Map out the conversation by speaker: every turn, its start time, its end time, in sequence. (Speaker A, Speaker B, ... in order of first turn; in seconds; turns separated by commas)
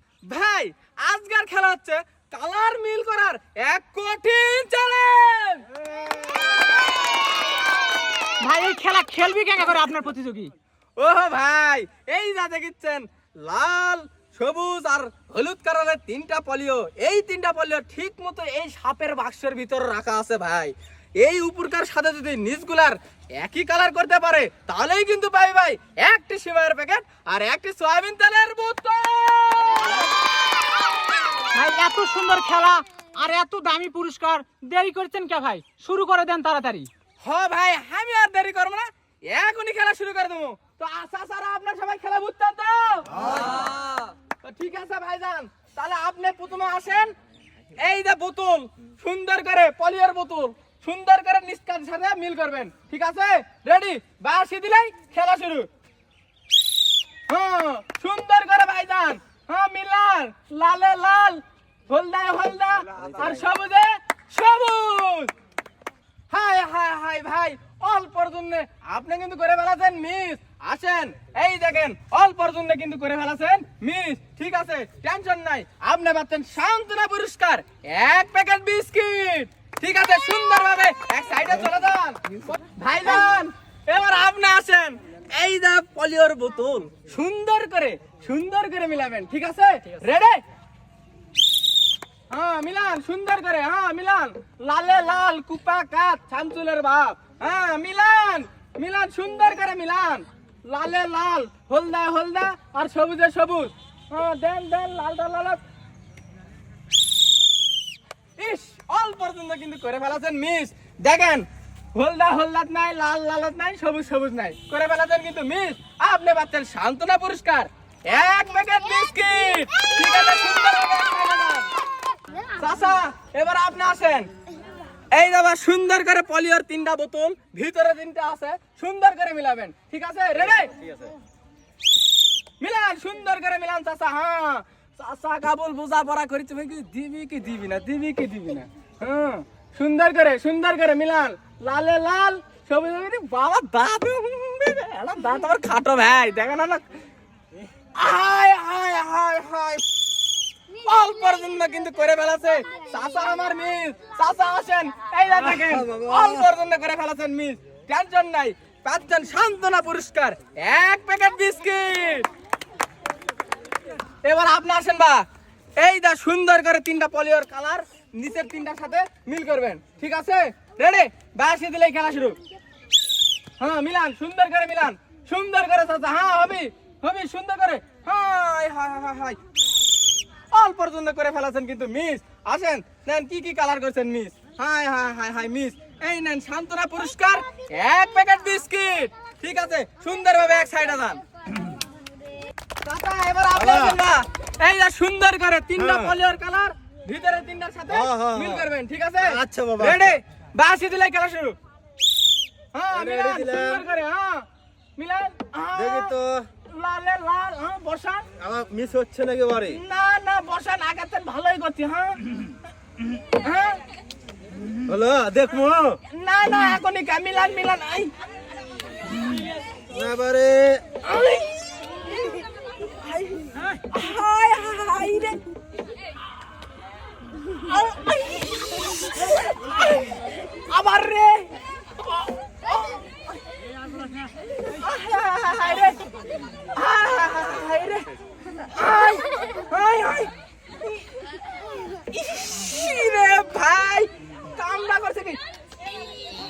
Speaker A: 0.2-5.7, Speaker B: 8.4-10.5, Speaker A: 11.0-30.1, Speaker B: 31.5-36.9, Speaker A: 37.2-47.1, Speaker A: 47.8-55.7, Speaker A: 57.3-65.3, Speaker A: 66.3-90.4, Speaker A: 92.3-105.6, Speaker A: 108.4-121.7, Speaker A: 122.5-124.3, Speaker A: 125.1-130.9, Speaker A: 132.6-146.8, Speaker A: 147.9-149.8, Speaker A: 150.7-162.3, Speaker C: 155.5-156.4, Speaker A: 164.2-165.2, Speaker A: 165.8-172.4, Speaker A: 173.6-179.4, Speaker A: 180.5-191.2, Speaker A: 192.8-201.6, Speaker C: 193.5-194.0, Speaker C: 195.8-196.1, Speaker C: 197.9-198.7, Speaker C: 199.2-200.2, Speaker A: 202.7-206.2, Speaker C: 202.9-203.8, Speaker C: 205.8-206.5, Speaker A: 206.7-208.2, Speaker C: 208.4-209.8, Speaker A: 209.7-212.3, Speaker A: 213.4-213.8, Speaker C: 214.8-216.0, Speaker A: 216.1-218.1, Speaker C: 219.9-220.8, Speaker A: 221.0-222.4, Speaker A: 223.1-225.4, Speaker A: 227.5-233.2, Speaker A: 234.7-236.0, Speaker A: 236.7-238.1, Speaker A: 238.6-240.3, Speaker A: 240.8-241.1, Speaker A: 241.9-245.4